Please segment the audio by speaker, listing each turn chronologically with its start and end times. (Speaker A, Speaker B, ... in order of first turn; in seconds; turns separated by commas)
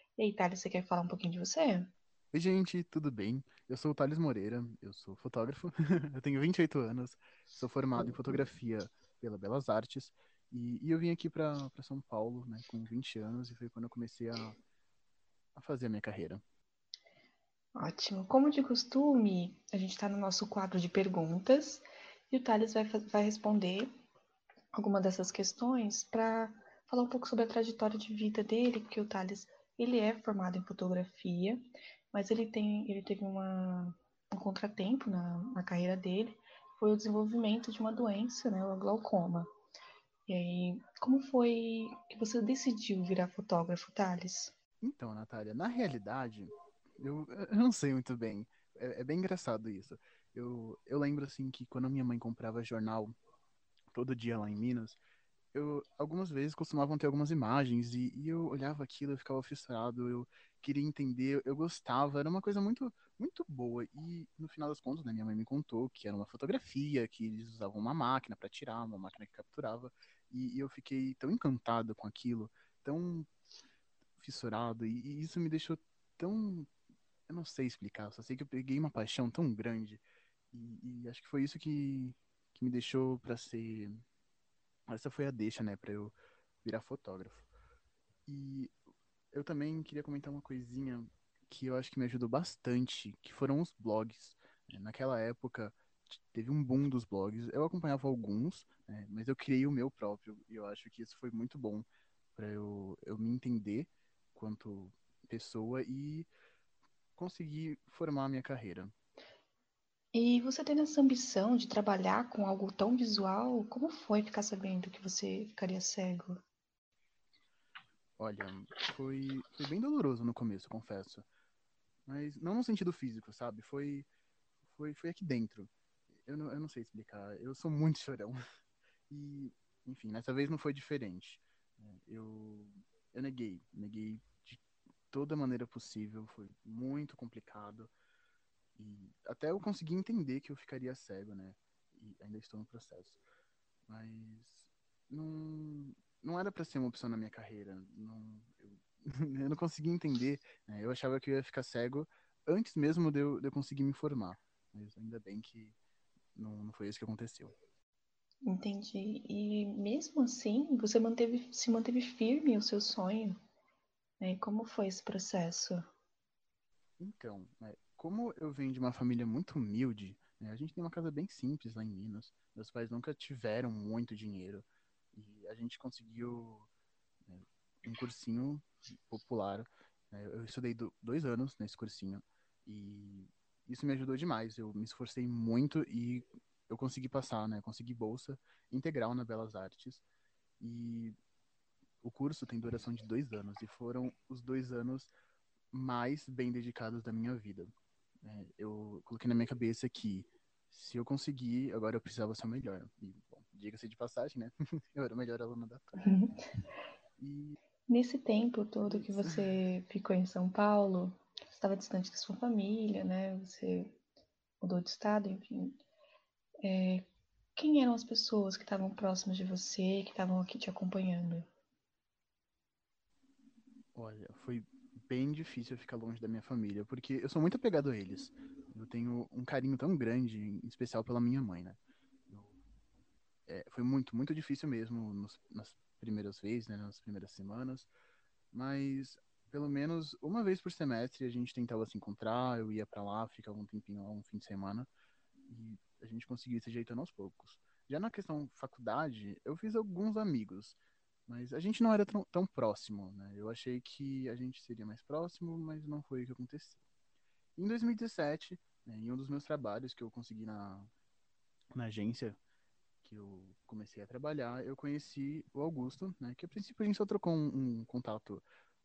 Speaker A: 0.2-1.9, Speaker B: 2.3-14.6, Speaker A: 8.0-8.4, Speaker B: 15.6-16.4, Speaker A: 17.8-23.9, Speaker A: 24.7-39.5, Speaker A: 40.3-44.5, Speaker B: 44.8-53.1, Speaker B: 53.9-55.0, Speaker B: 55.5-73.3, Speaker B: 74.2-76.7, Speaker B: 77.3-84.0, Speaker B: 84.9-87.5, Speaker B: 88.3-88.8, Speaker B: 89.3-106.3, Speaker B: 107.2-108.9, Speaker A: 110.1-116.4, Speaker B: 118.2-121.3, Speaker B: 122.1-124.1, Speaker B: 124.6-128.4, Speaker B: 129.1-137.9, Speaker B: 138.8-143.2, Speaker B: 143.9-155.8, Speaker B: 156.3-157.6, Speaker A: 158.4-163.4, Speaker A: 164.2-165.9, Speaker B: 167.0-176.7, Speaker B: 177.3-190.1, Speaker B: 190.6-191.2, Speaker B: 192.0-195.1, Speaker B: 195.7-197.7, Speaker B: 198.2-206.1, Speaker A: 206.0-206.3, Speaker B: 207.2-207.6, Speaker A: 207.9-214.0, Speaker B: 208.8-209.6, Speaker A: 214.6-215.8, Speaker A: 216.6-221.5, Speaker B: 223.9-232.6, Speaker B: 233.5-237.9, Speaker B: 238.5-244.9, Speaker B: 245.5-256.8, Speaker B: 257.6-260.9, Speaker B: 261.7-262.4, Speaker B: 263.0-268.4